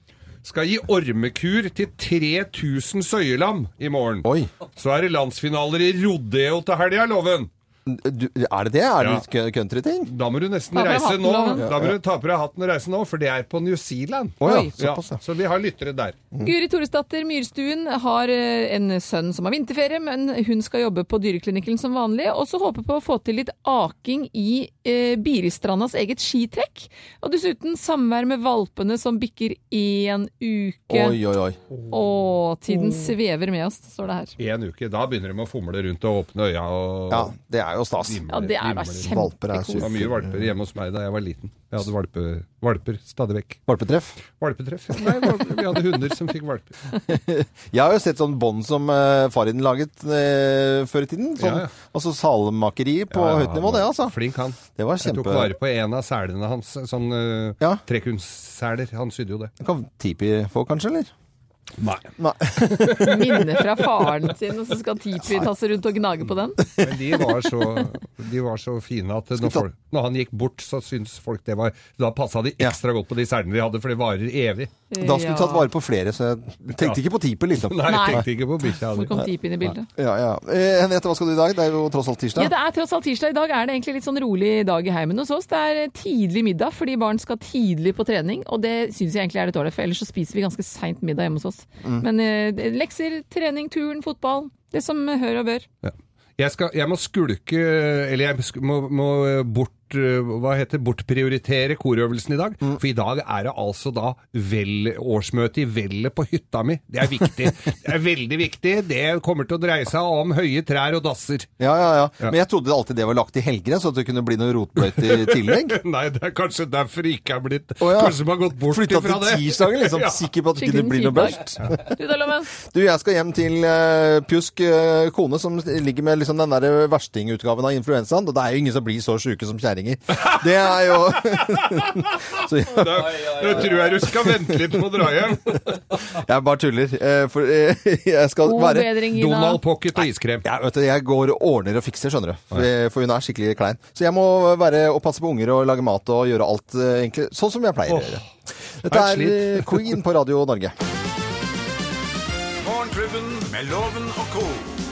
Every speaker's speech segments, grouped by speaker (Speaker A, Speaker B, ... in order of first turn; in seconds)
Speaker A: 0.4-7.5, 10.1-16.2, 34.4-37.3, 38.1-39.1, 39.8-43.6, 44.3-46.7, 51.4-51.7, 53.1-59.5, 61.8-62.1, 66.8-74.7, 77.6-79.2, 95.8-111.5, 114.8-120.2, 131.6-132.0, 132.6-135.9, 139.1-140.4, 147.9-148.2, 148.9-149.8
Speaker B: 4.2-4.5, 7.8-10.1, 11.6-11.9, 14.4-15.2, 30.9-31.6, 37.1-38.2, 39.0-40.5, 43.7-44.1, 47.1-55.5, 59.6-61.1, 62.2-63.5, 69.3-69.6, 75.0-78.2, 79.8-82.5, 111.6-115.8, 117.8-121.8, 122.6-134.8, 135.7-139.0, 140.0-148.2, 148.8-150.7
Speaker C: 10.7-11.7, 14.4-14.7, 16.4-31.2, 31.9-34.4, 38.3-40.0, 63.0-66.6, 74.9-75.7, 77.8-78.2, 78.9-79.9, 82.3-95.7, 120.6-122.5, 138.4-139.6
Speaker D: 152.6-154.7